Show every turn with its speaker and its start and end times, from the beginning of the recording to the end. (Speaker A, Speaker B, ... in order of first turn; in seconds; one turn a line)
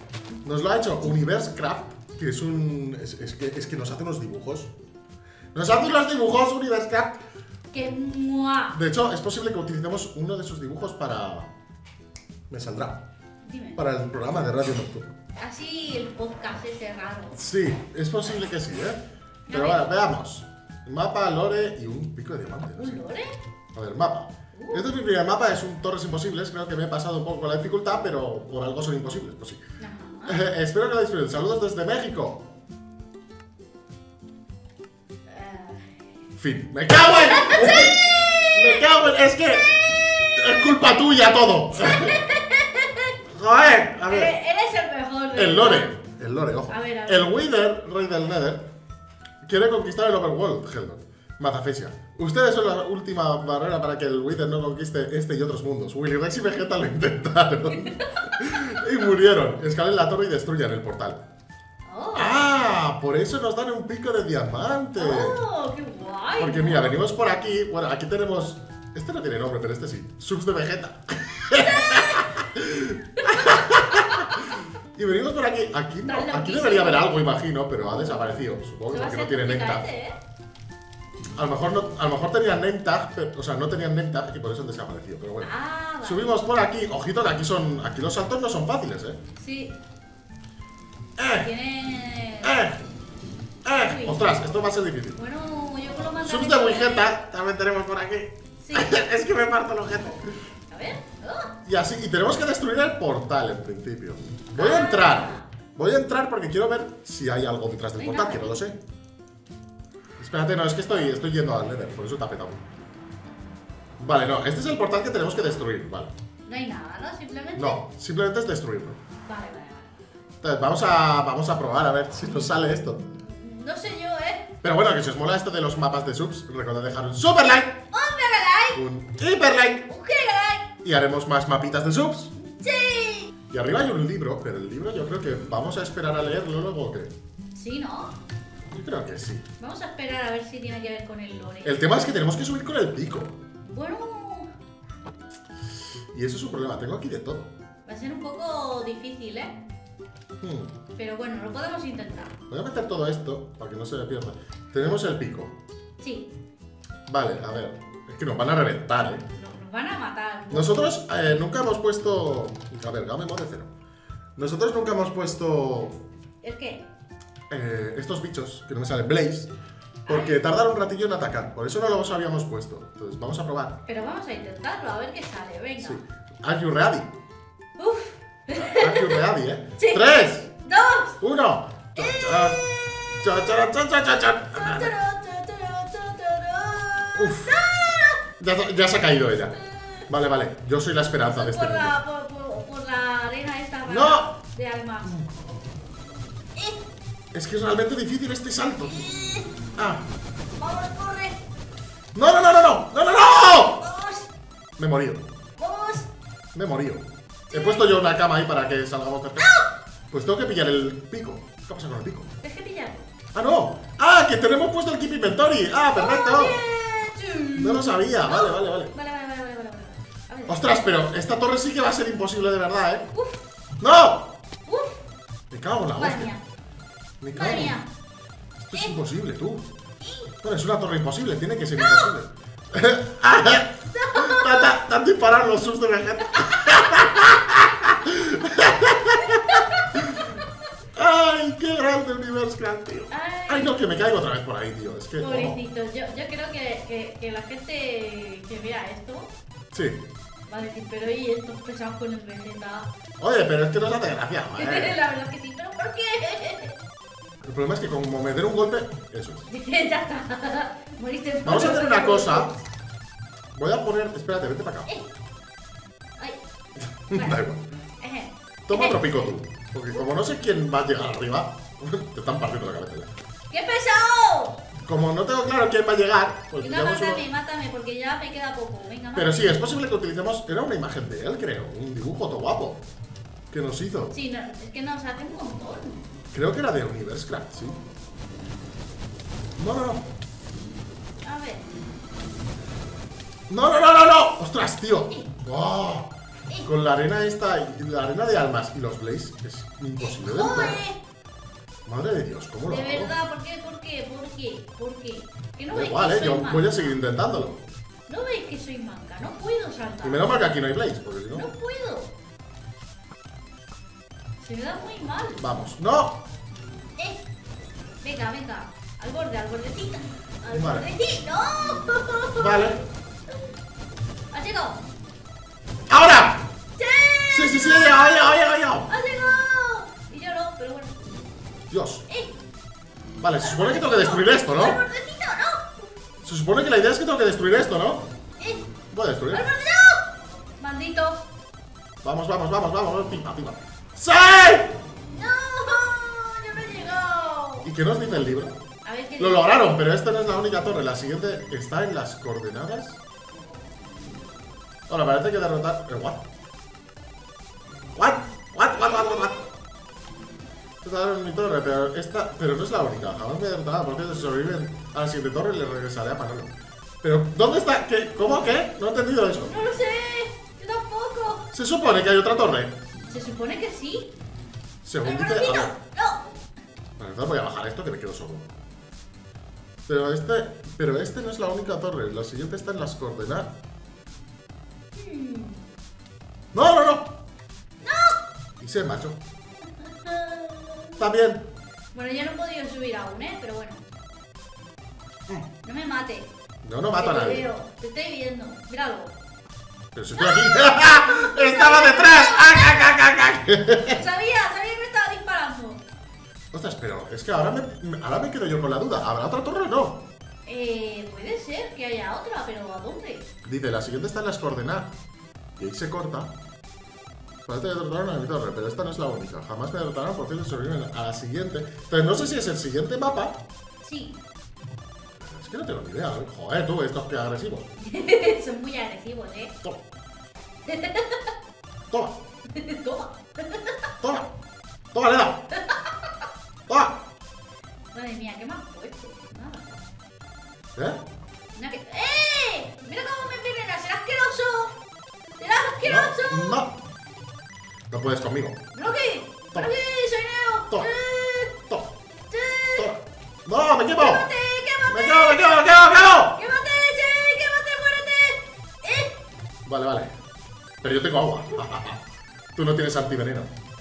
Speaker A: 0.4-4.7
Speaker A: 5.5-7.2
Speaker B: 7.7-8.8
Speaker A: 8.7-11.5
Speaker A: 12.5-13.0
Speaker B: 13.4-13.8
Speaker A: 13.8-15.1
Speaker B: 15.4-17.4
Speaker A: 17.4-19.0
Speaker B: 19.5-19.9
Speaker A: 19.5-23.0
Speaker B: 22.8-23.4
Speaker A: 23.8-29.6
Speaker B: 24.5-24.9
Speaker B: 29.8-30.4
Speaker A: 30.3-32.4
Speaker B: 35.3-36.0
Speaker A: 36.4-39.7
Speaker B: 37.0-40.4
Speaker A: 40.4-42.2
Speaker B: 41.8-43.1
Speaker A: 43.3-44.3
Speaker B: 44.1-45.9
Speaker A: 45.4-48.6
Speaker B: 46.7-47.3
Speaker A: 49.4-61.2
Speaker B: 57.7-58.4
Speaker B: 61.9-62.5
Speaker A: 62.1-65.4
Speaker B: 65.0-67.0
Speaker A: 66.4-79.8
Speaker B: 71.6-72.5
Speaker B: 73.2-74.5
Speaker B: 76.1-77.1
Speaker B: 78.0-78.2
Speaker B: 78.9-80.2
Speaker A: 81.4-85.5
Speaker B: 85.4-86.3
Speaker A: 86.0-89.2
Speaker B: 89.4-89.8
Speaker A: 91.2-91.5
Speaker B: 91.3-92.6
Speaker A: 92.4-92.8
Speaker A: 93.7-95.2
Speaker B: 93.7-94.3
Speaker B: 95.2-97.1
Speaker A: 96.2-100.3
Speaker B: 98.6-99.0
Speaker B: 100.7-101.5
Speaker A: 101.7-108.8
Speaker B: 104.6-105.5
Speaker B: 108.0-108.6
Speaker A: 110.2-112.6
Speaker A: 114.0-116.1
Speaker B: 116.5-117.8
Speaker A: 117.5-119.0
Speaker B: 119.2-119.9
Speaker A: 120.4-123.1
Speaker B: 123.2-124.5
Speaker A: 124.6-127.8
Speaker B: 127.9-128.8
Speaker A: 128.7-129.9
Speaker B: 129.9-130.7
Speaker A: 130.8-132.3
Speaker B: 132.4-133.3
Speaker A: 133.5-137.1
Speaker B: 137.6-138.2
Speaker A: 138.7-139.5
Speaker B: 139.6-142.0
Speaker A: 141.6-143.4
Speaker B: 143.6-144.5
Speaker A: 146.1-147.5
Speaker B: 147.9-149.6
Speaker A: 150.4-150.7
Speaker B: 151.0-152.4
Speaker A: 152.5-155.6
Speaker B: 156.0-156.3
Speaker A: 157.1-159.2
Speaker B: 159.4-160.9
Speaker A: 160.5-163.7
Speaker A: 164.4-166.0
Speaker B: 166.4-166.8
Speaker A: 167.5-169.5
Speaker A: 170.1-173.8
Speaker B: 170.1-170.4
Speaker B: 173.9-176.0
Speaker A: 175.8-177.1
Speaker B: 177.8-179.2
Speaker A: 178.6-180.5
Speaker B: 179.8-180.1
Speaker B: 180.6-181.2
Speaker A: 181.2-182.6
Speaker B: 182.0-183.1
Speaker A: 183.2-184.9
Speaker B: 184.5-188.2
Speaker A: 187.2-187.6
Speaker A: 188.4-189.5
Speaker B: 189.5-190.1
Speaker A: 190.1-192.0
Speaker B: 191.3-195.2
Speaker A: 193.9-194.3
Speaker B: 196.6-196.8
Speaker A: 197.3-199.0
Speaker B: 198.8-199.5
Speaker A: 199.8-200.0
Speaker B: 200.6-201.4
Speaker A: 202.2-203.8
Speaker B: 203.8-204.3
Speaker A: 204.8-205.2
Speaker B: 205.6-206.1
Speaker A: 206.5-209.5
Speaker B: 207.5-208.0
Speaker B: 209.4-209.7
Speaker A: 210.1-212.3
Speaker B: 212.4-213.1
Speaker A: 213.3-216.6
Speaker B: 215.9-220.7
Speaker A: 217.6-218.9
Speaker A: 220.5-223.1
Speaker B: 223.1-223.4
Speaker A: 223.8-224.3
Speaker B: 224.7-225.0
Speaker A: 225.5-226.3
Speaker B: 225.9-226.4
Speaker A: 227.2-227.8
Speaker B: 227.3-227.9
Speaker A: 228.6-229.6
Speaker B: 228.7-229.0
Speaker B: 230.0-230.3
Speaker A: 230.4-240.3
Speaker B: 231.8-232.1
Speaker B: 233.9-234.8
Speaker B: 239.0-240.5
Speaker A: 240.9-245.6
Speaker B: 243.1-243.8
Speaker B: 245.2-249.3
Speaker A: 249.7-250.0
Speaker B: 250.5-252.9
Speaker A: 253.2-255.0
Speaker B: 254.6-256.8
Speaker A: 257.4-259.4
Speaker B: 259.5-262.6
Speaker A: 261.4-262.5
Speaker A: 263.6-264.9
Speaker A: 267.1-267.6
Speaker B: 267.1-267.4
Speaker B: 268.0-269.2
Speaker A: 268.7-273.1
Speaker B: 273.5-274.6
Speaker A: 274.9-277.2
Speaker B: 276.6-279.5
Speaker A: 279.1-282.8
Speaker A: 283.5-284.1
Speaker B: 284.1-286.0
Speaker A: 286.3-287.8
Speaker A: 289.6-290.0
Speaker B: 291.2-291.7
Speaker A: 293.5-296.1
Speaker A: 296.6-300.8
Speaker B: 300.0-301.0
Speaker A: 301.9-303.1
Speaker B: 302.7-306.9
Speaker A: 305.7-307.6
Speaker B: 308.1-310.4
Speaker A: 310.0-311.5
Speaker B: 311.4-312.1
Speaker B: 314.4-315.4
Speaker A: 315.4-316.2
Speaker B: 317.0-317.2
Speaker B: 318.0-323.5
Speaker A: 320.5-320.9
Speaker A: 322.4-322.8
Speaker B: 324.3-324.8
Speaker A: 325.9-326.4
Speaker B: 326.8-328.3
Speaker A: 327.3-328.9
Speaker B: 328.9-330.9
Speaker A: 331.7-332.0
Speaker B: 332.1-332.3
Speaker A: 333.2-334.8
Speaker B: 333.4-335.9
Speaker A: 336.2-338.0
Speaker B: 338.4-338.7
Speaker A: 338.9-339.5
Speaker B: 339.3-341.3
Speaker A: 342.0-344.7
Speaker B: 345.1-347.7
Speaker A: 347.6-348.6
Speaker B: 348.8-349.7
Speaker A: 349.2-353.0
Speaker A: 354.9-356.3
Speaker A: 357.9-359.4
Speaker B: 358.8-359.5
Speaker A: 360.8-369.6
Speaker B: 369.4-371.5
Speaker A: 371.5-372.8
Speaker B: 373.1-374.1
Speaker A: 374.9-375.7
Speaker B: 375.0-376.3
Speaker A: 377.0-378.5
Speaker A: 379.9-383.5
Speaker B: 384.9-385.6
Speaker A: 386.5-387.1
Speaker B: 387.8-388.2
Speaker A: 388.6-389.2
Speaker B: 389.8-391.0
Speaker A: 391.0-391.4
Speaker B: 391.9-393.8
Speaker B: 395.6-396.3
Speaker A: 396.6-397.5
Speaker B: 397.0-399.1
Speaker A: 399.9-404.0
Speaker B: 400.2-403.0
Speaker B: 403.9-405.8
Speaker A: 406.5-410.0
Speaker B: 410.5-413.3
Speaker A: 413.4-414.9
Speaker A: 415.6-416.3
Speaker A: 417.5-423.4
Speaker B: 423.8-424.2
Speaker A: 425.2-427.7
Speaker B: 427.8-429.5
Speaker B: 430.7-431.3
Speaker A: 431.9-432.2
Speaker B: 432.5-433.9
Speaker A: 434.0-434.3
Speaker A: 434.9-435.4
Speaker B: 435.5-436.2
Speaker A: 436.7-437.0
Speaker B: 437.9-439.8
Speaker A: 440.8-441.0
Speaker B: 441.6-444.8
Speaker B: 445.4-446.6
Speaker A: 445.8-446.7
Speaker A: 447.9-448.6
Speaker B: 448.7-451.6
Speaker B: 452.3-452.9
Speaker A: 452.8-454.3
Speaker B: 453.9-459.1
Speaker A: 454.9-456.4
Speaker A: 459.7-460.1
Speaker A: 460.8-462.0
Speaker A: 462.6-463.5